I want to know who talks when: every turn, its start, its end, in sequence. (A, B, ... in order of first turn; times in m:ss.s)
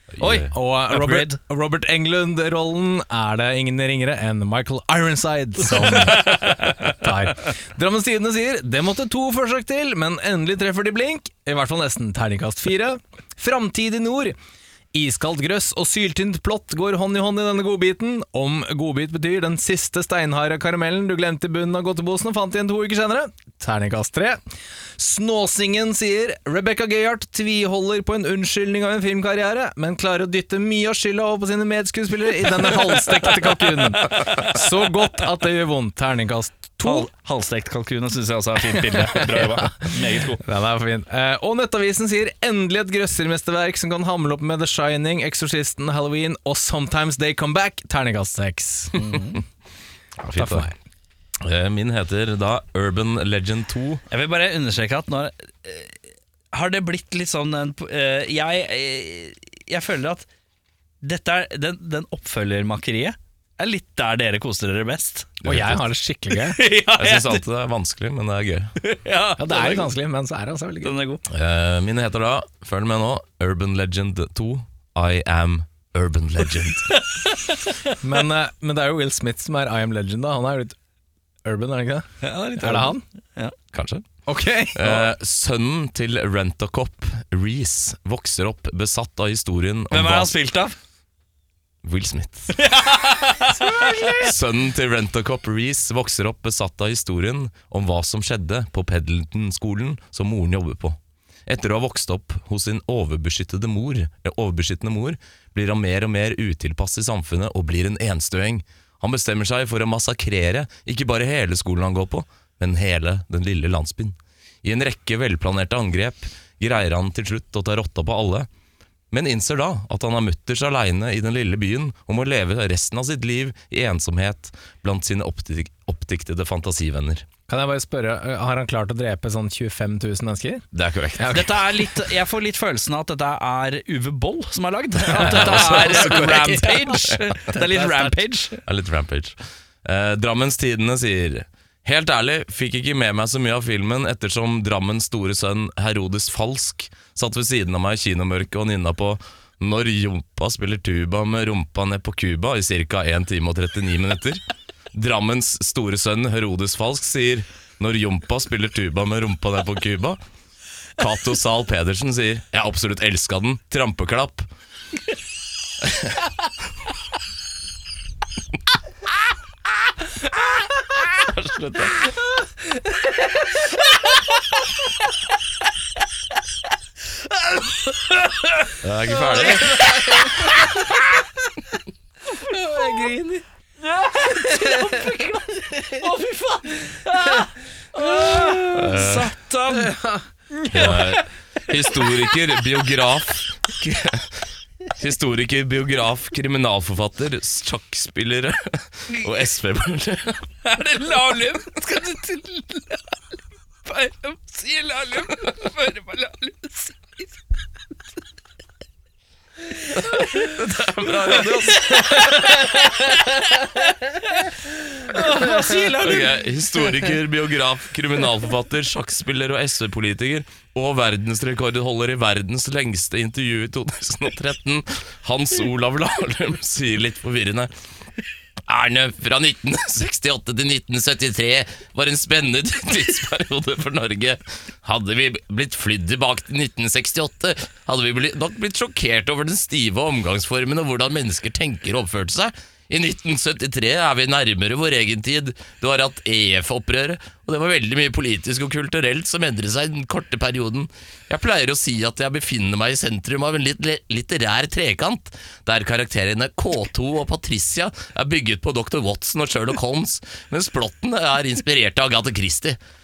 0:00.1-0:00.5 A
0:00.2-0:01.4 B
0:00.3-0:14.4 C
0:05.8-0:06.9 B
0:14.9-0:24.4 C
0:25.0-0:37.1 C
0:33.7-0:34.6 B
0:36.8-0:40.4 B
0:38.7-0:49.2 C
0:49.0-0:49.4 B
0:50.2-0:50.7 A
0:50.3-0:50.7 C
0:51.4-0:54.0 A
0:54.1-0:56.0 B
0:56.5-1:00.3 B
1:01.0-1:05.4 B
1:05.4-1:05.8 A
1:05.5-1:06.6 C
1:06.3-1:07.4 B
1:07.0-1:08.7 A
1:08.8-1:09.9 B
1:09.4-1:10.9 C
1:10.8-1:11.2 B
1:11.3-1:16.9 A
1:16.9-1:17.9 B
1:18.0-1:20.8 C
1:21.4-1:23.0 C
1:22.2-1:23.6 B
1:23.7-1:24.1 A
1:24.3-1:25.1 C
1:24.7-1:30.3 A
1:29.9-1:30.8 B
1:31.8-1:32.6 A
1:32.6-1:34.2 B
1:33.6-1:34.3 C
1:34.1-1:58.5 A
1:59.1-2:07.3 A
2:07.5-2:11.6 C
2:10.7-2:11.5 A
2:11.3-2:18.6 B
2:15.1-2:18.2 C
2:15.2-2:17.2 A
2:18.6-2:34.4 A
2:34.9-2:40.2 A
2:41.0-2:44.5 A
2:45.8-2:46.1 A
2:51.2-2:52.0 A
2:57.7-3:00.7 B
2:58.8-2:59.8 A
2:59.4-3:00.8 C
3:02.3-3:03.4 C
3:02.6-3:03.1 B
3:03.8-3:10.0 B
3:04.4-3:05.2 C
3:05.8-3:06.1 C
3:07.2-3:09.0 C
3:08.7-3:09.3 A
3:09.7-3:10.2 C
3:10.5-3:12.6 B
3:10.7-3:14.4 A
3:14.9-3:20.5 A
3:20.6-3:23.2 B
3:23.8-3:27.3 B
3:29.9-3:36.4 B
3:30.2-3:32.2 A
3:35.9-3:47.7 A
3:48.7-4:22.8 A